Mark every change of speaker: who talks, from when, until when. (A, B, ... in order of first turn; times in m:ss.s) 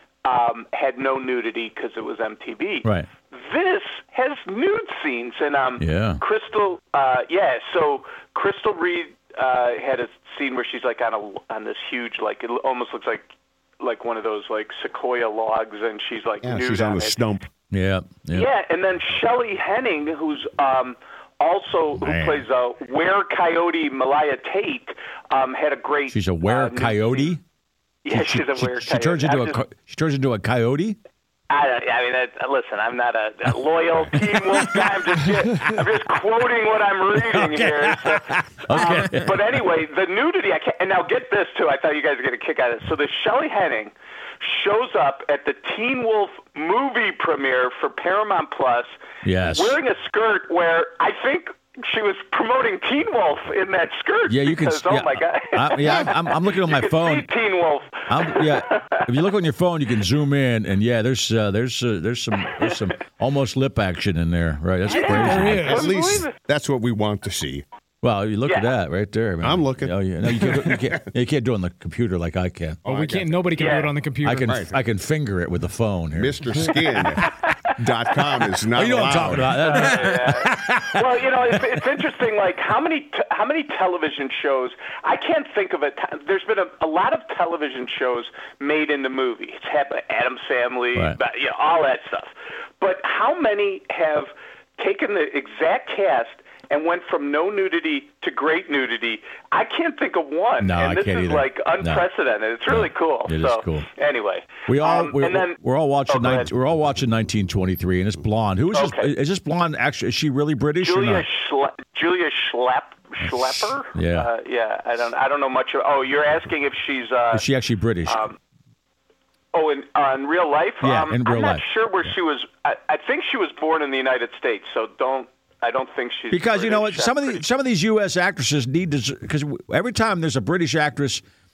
0:00.2-0:17.2 A
0:05.8-0:06.2 B
0:16.4-0:17.4 C
0:17.7-0:18.5 B
0:18.3-0:27.3 A
0:22.0-0:22.4 B
0:26.1-0:27.4 B
0:28.0-0:29.6 A
0:28.1-0:31.0 B
0:31.5-0:48.9 A
0:37.2-0:39.4 B
0:49.2-0:49.8 B
0:49.5-0:59.0 A
0:54.3-0:57.3 B
0:58.1-1:05.9 B
1:04.9-1:06.3 A
1:04.9-1:06.2 D
1:05.1-1:07.6 C
1:08.0-1:12.8 B
1:09.4-1:11.0 C
1:12.8-1:13.4 C
1:12.8-1:14.6 D
1:13.6-1:13.9 A
1:14.2-1:16.8 B
1:14.5-1:14.7 C
1:16.2-1:19.7 C
1:18.7-1:21.6 B
1:19.5-1:45.6 A
1:40.6-1:42.1 B
1:42.6-1:43.9 B
1:44.7-1:51.3 B
1:46.1-1:46.5 A
1:48.7-1:49.1 A
1:50.8-1:57.4 A
1:53.2-1:54.3 B
1:57.3-1:58.2 B
1:58.0-1:58.4 A
1:59.5-2:07.4 A
2:00.8-2:02.1 B
2:06.3-2:11.2 B